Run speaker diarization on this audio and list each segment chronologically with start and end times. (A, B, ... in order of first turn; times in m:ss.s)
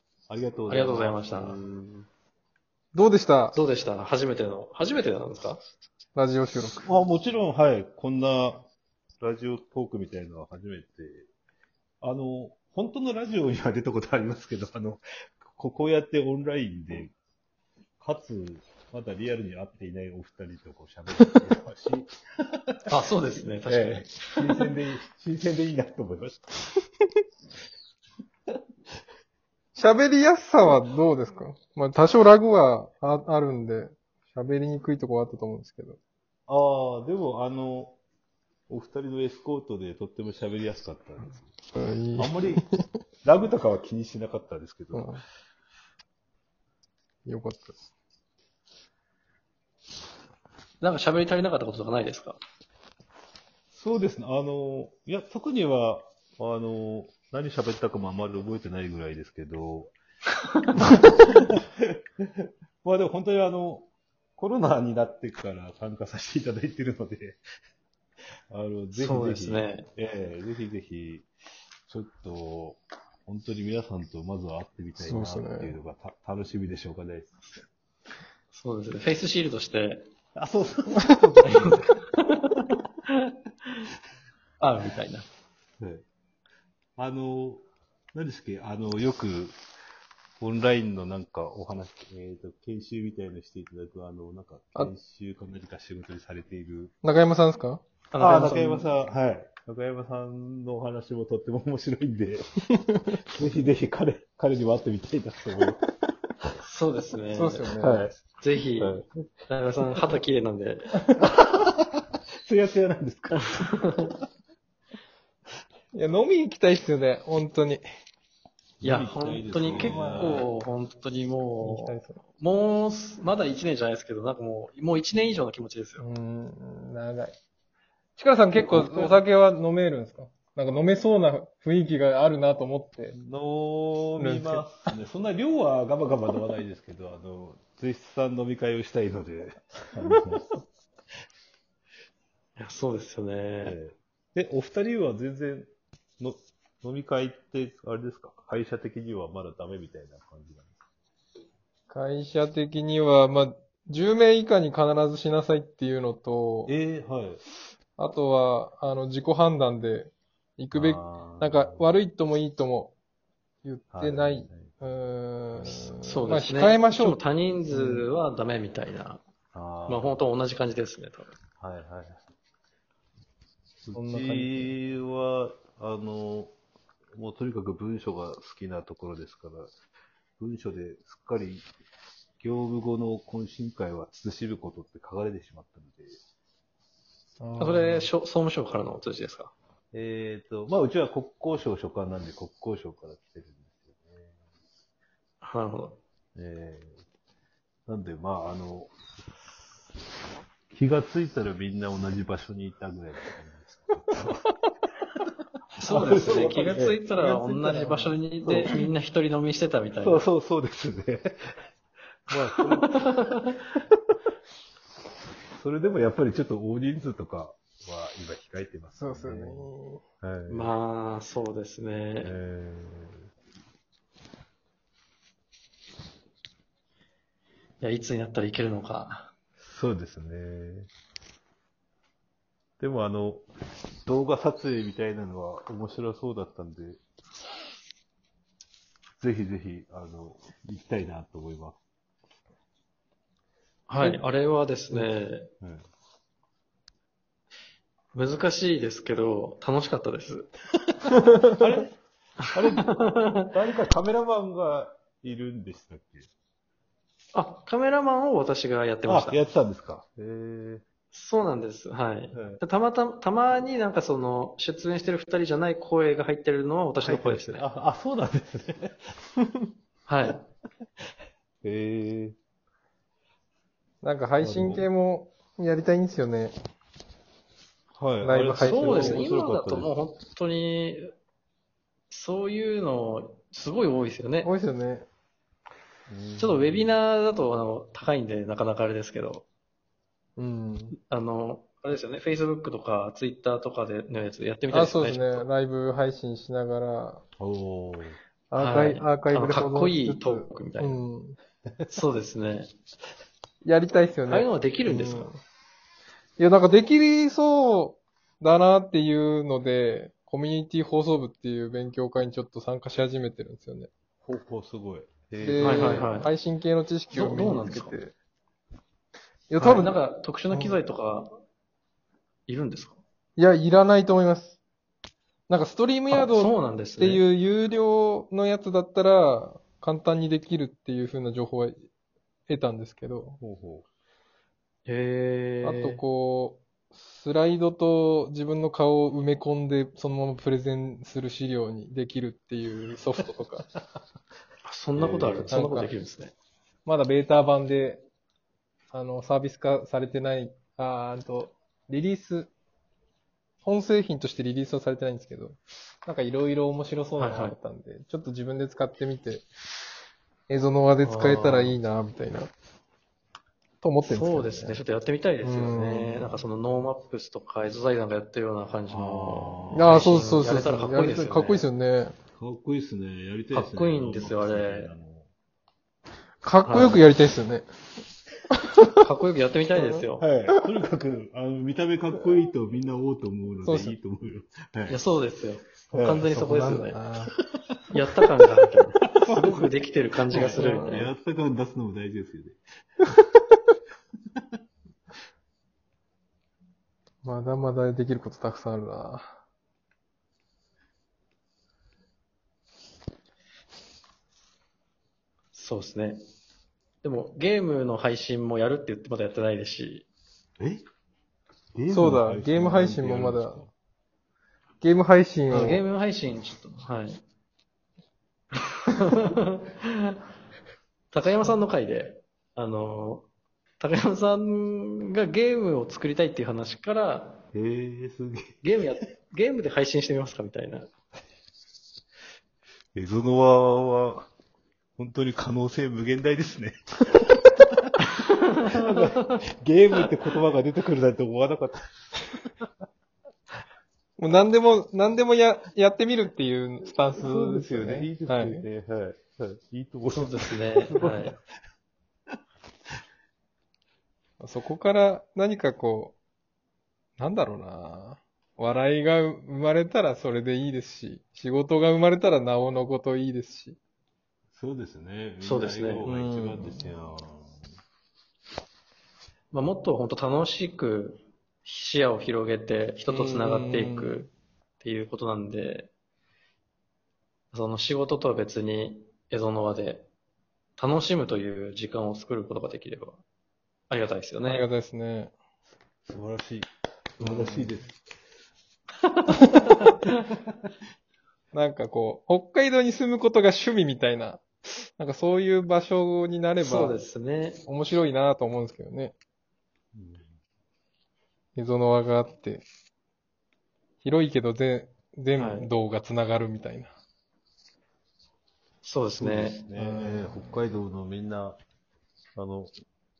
0:00.3-0:02.1 A
0:00.7-0:01.6 B
0:02.9-0:03.6 C
0:03.5-0:05.6 B
0:06.1-0:06.8 C
0:06.8-0:08.7 A
0:09.2-0:11.3 A
0:12.0-0:17.1 A
0:18.0-0:22.1 A
0:22.7-0:22.9 A
0:22.9-0:24.7 B
0:23.6-0:26.5 A
0:29.7-0:36.0 C
0:36.5-0:38.0 A
0:38.7-0:41.5 A
0:41.7-0:42.6 C
0:42.2-0:42.6 A
0:43.2-0:45.1 A
0:44.9-0:45.2 C
0:47.2-0:47.8 C
0:50.8-0:52.4 B
0:53.7-0:59.9 A
1:00.7-1:07.4 A
1:08.5-1:11.3 A
1:08.9-1:09.8 B
1:11.9-1:17.4 A
1:15.0-1:15.7 C
1:18.5-1:20.1 B
1:20.4-1:22.0 A
1:21.4-1:23.8 B
1:24.6-1:25.2 B
1:25.8-1:26.0 A
1:27.0-1:29.6 A
1:30.4-1:36.9 A
1:37.0-1:37.8 C
1:38.1-1:38.9 B
1:38.2-1:45.8 A
1:46.6-1:47.7 B
1:47.3-1:48.1 C
1:47.8-1:48.2 A
1:48.2-1:49.0 B
1:48.8-1:49.1 A
1:49.5-1:51.0 B
1:51.2-1:54.2 A
1:53.4-1:54.1 B
1:55.9-1:57.8 C
1:58.8-2:00.5 A
1:58.8-2:06.0 B
1:59.7-2:00.4 C
2:01.6-2:02.2 C
2:06.0-2:07.4 C
2:08.2-2:13.1 C
2:08.6-2:09.2 B
2:13.1-2:20.5 A
2:14.2-2:14.7 C
2:22.6-2:23.8 B
2:23.6-2:25.7 A
2:26.2-2:30.8 A
2:31.9-2:36.7 C
2:36.6-2:37.4 A
2:38.0-2:42.9 C
2:40.7-2:42.0 A
2:43.6-2:47.2 C
2:43.9-2:44.7 A
2:45.5-2:45.9 A
2:46.0-2:49.2 B
2:47.7-2:48.0 C
2:49.5-2:50.2 A
2:49.8-2:51.3 B
2:51.6-2:52.2 A
2:53.8-2:56.5 A
2:53.9-2:54.8 C
2:57.2-2:59.7 A
3:00.4-3:01.7 A
3:02.4-3:06.2 A
3:07.4-3:08.1 C
3:07.6-3:09.5 B
3:09.9-3:14.3 A
3:15.4-3:16.0 B
3:16.4-3:17.0 A
3:17.9-3:18.9 A
3:20.7-3:24.4 A
3:25.8-3:30.2 B
3:25.8-3:27.0 A
3:27.1-3:28.1 C
3:28.4-3:28.7 A
3:30.0-3:31.4 A
3:32.3-3:33.1 A
3:32.6-3:33.6 B
3:35.6-3:39.7 A
3:39.0-3:40.0 C
3:40.2-3:40.7 A
3:40.5-3:42.3 B
3:42.2-3:43.2 A
3:47.8-3:49.3 B
3:49.6-3:50.9 A
3:52.8-3:53.5 A
3:54.0-3:57.0 A
3:59.2-4:01.8 A
4:03.9-4:05.5 B
4:08.1-4:10.5 B
4:11.6-4:16.3 A
4:12.8-4:13.5 B
4:17.3-4:19.4 B
4:19.0-4:20.8 A
4:21.1-4:27.6 B
4:22.3-4:22.6 A
4:27.0-4:29.0 A
4:30.1-4:30.4 B
4:31.6-4:32.4 A
4:34.0-4:36.5 C
4:34.4-4:34.9 A
4:37.9-4:39.9 A
4:38.2-4:39.3 C
4:38.6-4:41.1 B
4:42.1-4:44.5 B
4:44.4-4:45.1 C
4:46.1-4:47.0 A
4:46.4-4:49.4 B
4:50.4-4:50.9 C
4:51.1-4:55.4 B
4:54.7-4:57.2 C
4:57.4-4:58.2 A
4:58.5-5:01.4 C
4:58.5-5:01.0 B
5:01.9-5:02.7 B
5:03.6-5:05.4 C
5:04.3-5:05.3 B
5:06.4-5:13.9 C
5:14.2-5:16.3 A
5:15.4-5:18.1 C
5:15.6-5:16.3 B
5:17.1-5:18.0 B
5:19.5-5:20.0 C
5:19.6-5:21.3 B
5:22.5-5:23.0 B
5:23.4-5:24.6 C
5:25.5-5:31.9 C
5:26.1-5:27.2 B
5:32.5-5:33.4 C
5:33.4-5:33.8 A
5:34.8-5:36.0 B
5:35.6-5:43.7 C
5:44.6-5:46.3 B
5:45.0-5:45.6 A
5:45.5-5:45.9 C
5:46.8-5:48.0 C
5:48.9-5:52.5 C
5:53.6-5:59.4 C
5:57.2-5:57.6 B
6:00.5-6:02.5 C
6:01.0-6:01.8 B
6:03.8-6:04.8 C
6:04.0-6:11.6 B
6:05.4-6:06.4 C
6:08.9-6:10.4 A
6:09.7-6:12.1 C
6:12.4-6:15.3 A
6:13.5-6:14.9 B
6:16.4-6:17.6 C
6:16.6-6:17.0 B
6:19.0-6:20.2 B
6:19.7-6:20.6 C
6:20.2-6:25.0 A
6:23.6-6:24.0 C
6:24.9-6:27.0 B
6:25.9-6:26.3 A
6:26.3-6:27.3 C
6:27.9-6:31.1 B
6:29.1-6:29.6 A
6:29.3-6:29.6 C
6:30.3-6:32.6 A
6:30.3-6:31.0 C
6:37.2-6:39.3 C
6:45.5-6:46.2 B
6:47.0-6:50.0 B
6:50.6-6:50.8 A
6:51.7-6:53.7 A
6:51.9-6:53.6 C
6:54.8-6:55.8 C
6:55.5-6:57.2 B
6:58.9-7:00.1 B
7:01.1-7:03.3 B
7:03.8-7:07.4 B
7:07.5-7:08.6 A
7:08.6-7:10.9 B
7:12.9-7:14.3 A
7:15.0-7:17.9 A
7:18.6-7:22.7 A
7:24.2-7:28.6 C
7:27.2-7:31.4 A
7:30.1-7:31.4 B
7:34.4-7:36.2 C
7:37.2-7:43.8 C
7:44.5-7:47.6 A
7:45.4-7:46.1 B
7:46.0-7:46.9 C
7:49.5-7:55.9 B
7:53.1-7:54.2 C
7:57.5-8:00.1 B
8:00.8-8:03.2 B
8:03.9-8:04.6 B
8:04.4-8:05.3 C
8:06.0-8:08.0 A
8:07.2-8:07.7 B
8:09.0-8:10.2 B
8:11.5-8:17.0 C
8:16.6-8:17.6 B
8:17.6-8:19.1 C
8:19.9-8:20.3 A
8:21.6-8:22.6 C
8:24.0-8:26.9 C
8:25.3-8:25.7 B
8:28.8-8:29.6 B
8:29.2-8:31.6 A
8:29.8-8:30.5 C
8:32.3-8:32.7 A